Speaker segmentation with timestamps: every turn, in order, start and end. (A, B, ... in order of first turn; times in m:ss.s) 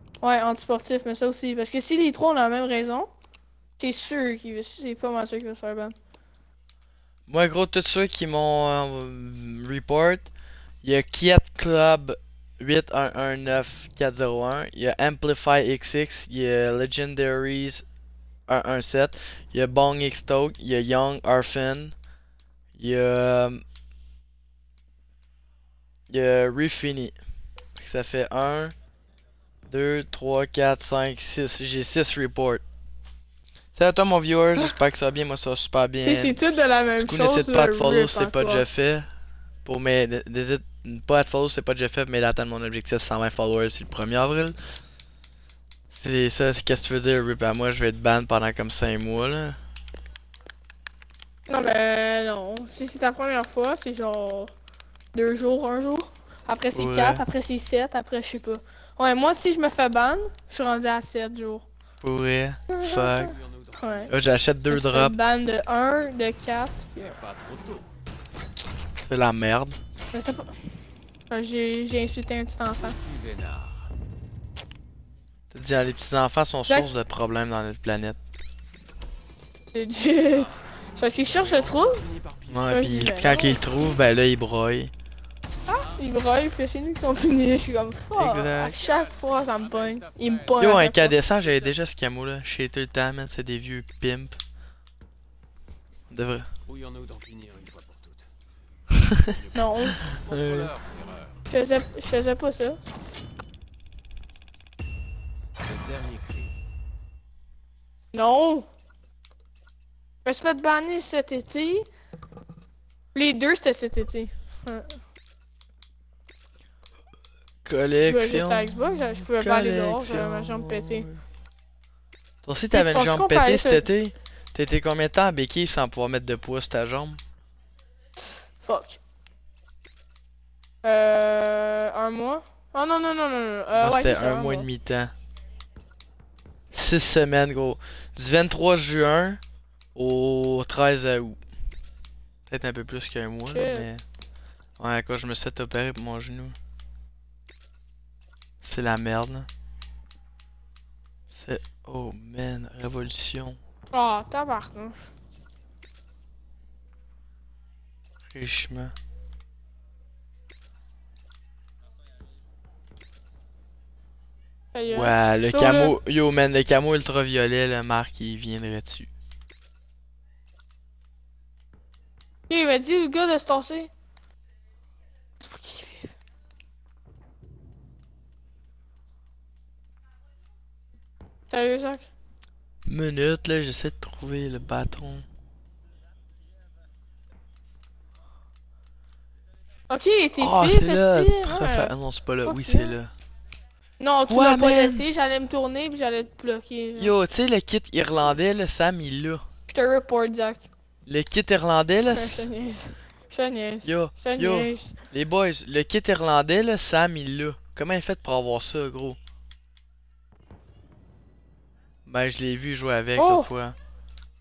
0:00.2-0:03.1 A
0:03.8-0:05.9 A
0:07.3-0:10.3 B
0:10.8-0:17.8 B
0:18.5-0:22.0 B
0:22.8-0:23.6 B
0:26.1-0:27.1 B
0:27.8-0:28.7 B
0:29.7-0:32.6 B
0:33.7-0:36.4 B
0:36.0-0:38.6 A
0:37.1-0:39.1 B
0:39.6-0:44.6 B
0:45.9-0:49.6 B
0:51.5-0:54.5 A
0:55.1-1:01.6 A
0:56.7-0:57.2 B
1:02.0-1:03.3 B
1:02.7-1:04.1 A
1:03.1-1:04.4 C
1:04.1-1:05.1 B
1:04.7-1:07.2 A
1:07.1-1:07.9 C
1:09.0-1:09.8 B
1:10.1-1:10.5 A
1:11.3-1:13.0 A
1:12.9-1:13.9 C
1:15.5-1:18.2 B
1:19.7-1:22.1 A
1:20.3-1:23.4 C
1:22.5-1:24.9 B
1:22.7-1:23.6 A
1:25.6-1:31.2 A
1:25.7-1:26.1 C
1:28.2-1:28.7 B
1:28.6-1:31.8 C
1:30.6-1:34.4 B
1:36.1-1:36.5 B
1:36.6-1:38.3 C
1:39.3-1:41.4 C
1:39.5-1:40.0 A
1:39.9-1:40.7 B
1:41.5-1:42.8 A
1:45.6-1:46.6 C
1:48.1-1:48.7 A
1:50.2-1:51.9 A
1:53.1-1:55.0 A
1:57.6-2:01.2 B
1:58.0-2:01.1 A
2:02.4-2:07.2 B
2:02.7-2:03.9 A
2:08.3-2:09.0 A
2:10.8-2:14.7 A
2:13.8-2:15.1 B
2:16.7-2:19.4 B
2:20.0-2:21.4 B
2:22.5-2:24.0 B
2:23.5-2:23.9 A
2:24.8-2:26.6 B
2:28.6-2:29.5 B
2:31.3-2:33.6 B
2:33.9-2:35.1 A
2:38.3-2:38.9 B
2:44.7-2:45.9 A
2:44.9-2:49.1 B
2:52.5-2:53.9 A
2:55.4-2:56.1 A
3:01.5-3:02.1 A
3:02.9-3:05.2 B
3:09.9-3:11.9 A
3:10.4-3:13.1 B
3:12.4-3:13.0 A
3:14.0-3:17.1 A
3:14.3-3:15.0 B
3:17.0-3:19.4 B
3:19.7-3:20.7 A
3:21.0-3:22.5 B
3:22.1-3:25.0 A
3:23.8-3:29.2 B
3:32.1-3:33.8 B
3:33.2-3:33.5 A